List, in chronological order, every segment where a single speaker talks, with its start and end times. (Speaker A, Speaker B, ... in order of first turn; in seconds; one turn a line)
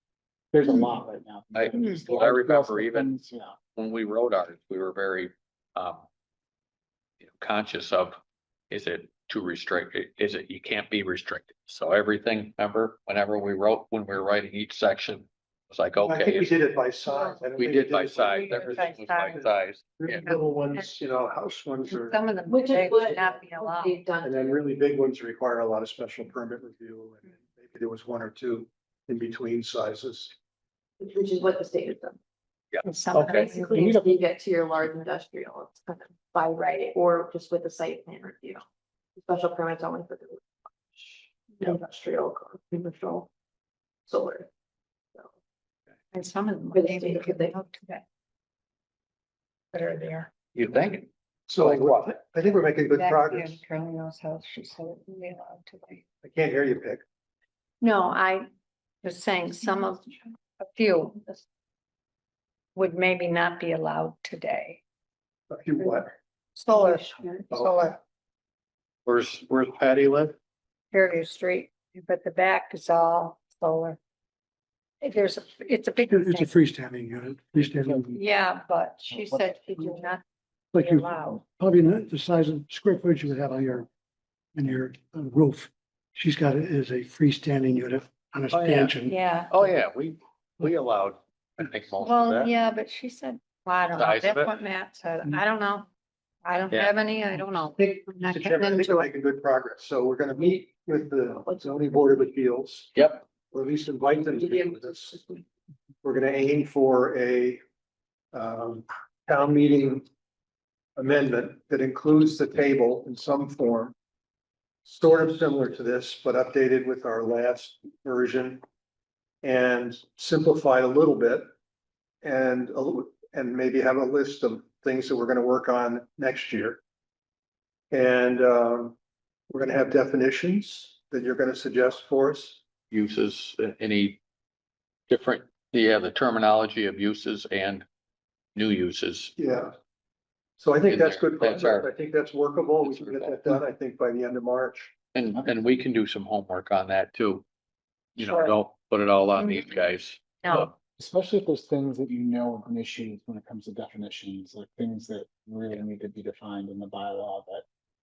Speaker A: 0.5-3.5
Speaker B: 1.5-3.1
Speaker B: 3.8-6.0
Speaker B: 7.2-8.2
Speaker B: 8.7-16.5
Speaker C: 16.0-22.3
Speaker D: 17.1-17.4
Speaker B: 17.6-20.3
Speaker D: 18.2-19.4
Speaker D: 20.1-20.9
Speaker D: 21.9-24.0
Speaker E: 22.5-24.5
Speaker C: 24.2-30.3
Speaker E: 31.0-32.2
Speaker B: 32.7-33.5
Speaker D: 32.8-33.9
Speaker E: 33.2-38.6
Speaker A: 33.7-34.2
Speaker E: 39.2-43.3
Speaker E: 44.1-44.5
Speaker D: 46.1-48.0
Speaker E: 46.7-47.5
Speaker D: 49.7-50.3
Speaker B: 50.5-51.1
Speaker C: 51.5-53.6
Speaker B: 51.6-52.1
Speaker D: 52.8-56.0
Speaker C: 56.2-57.0
Speaker D: 57.8-58.5
Speaker D: 59.0-61.3
Speaker D: 62.7-64.8
Speaker C: 65.5-66.1
Speaker D: 66.5-68.0
Speaker E: 66.8-67.3
Speaker C: 67.5-67.9
Speaker B: 69.0-70.3
Speaker D: 70.9-74.0
Speaker D: 75.0-76.5
Speaker F: 76.1-78.1
Speaker A: 77.8-78.2
Speaker D: 78.1-80.2
Speaker A: 79.1-80.0
Speaker D: 80.7-81.4
Speaker F: 80.7-83.9
Speaker F: 84.5-89.2
Speaker B: 88.5-89.0
Speaker D: 89.0-89.5
Speaker B: 89.5-92.5
Speaker D: 92.0-95.9
Speaker B: 93.9-94.5
Speaker D: 96.4-99.1
Speaker B: 96.7-97.0
Speaker C: 97.8-103.0
Speaker B: 103.0-103.3
Speaker C: 103.5-105.2
Speaker E: 104.4-105.4
Speaker C: 106.0-107.6
Speaker C: 108.3-110.0
Speaker C: 111.0-114.0
Speaker C: 114.8-118.6
Speaker C: 119.4-121.5
Speaker C: 122.2-126.8
Speaker C: 127.9-128.9
Speaker C: 129.5-132.6
Speaker B: 132.9-134.2
Speaker B: 135.1-137.9
Speaker B: 138.6-139.3
Speaker C: 139.4-139.7
Speaker C: 140.6-144.9
Speaker B: 140.9-141.9
Speaker B: 142.8-143.6
Speaker B: 145.1-147.4
Speaker B: 148.2-150.7
Speaker D: 149.4-149.7
Speaker A: 151.0-157.6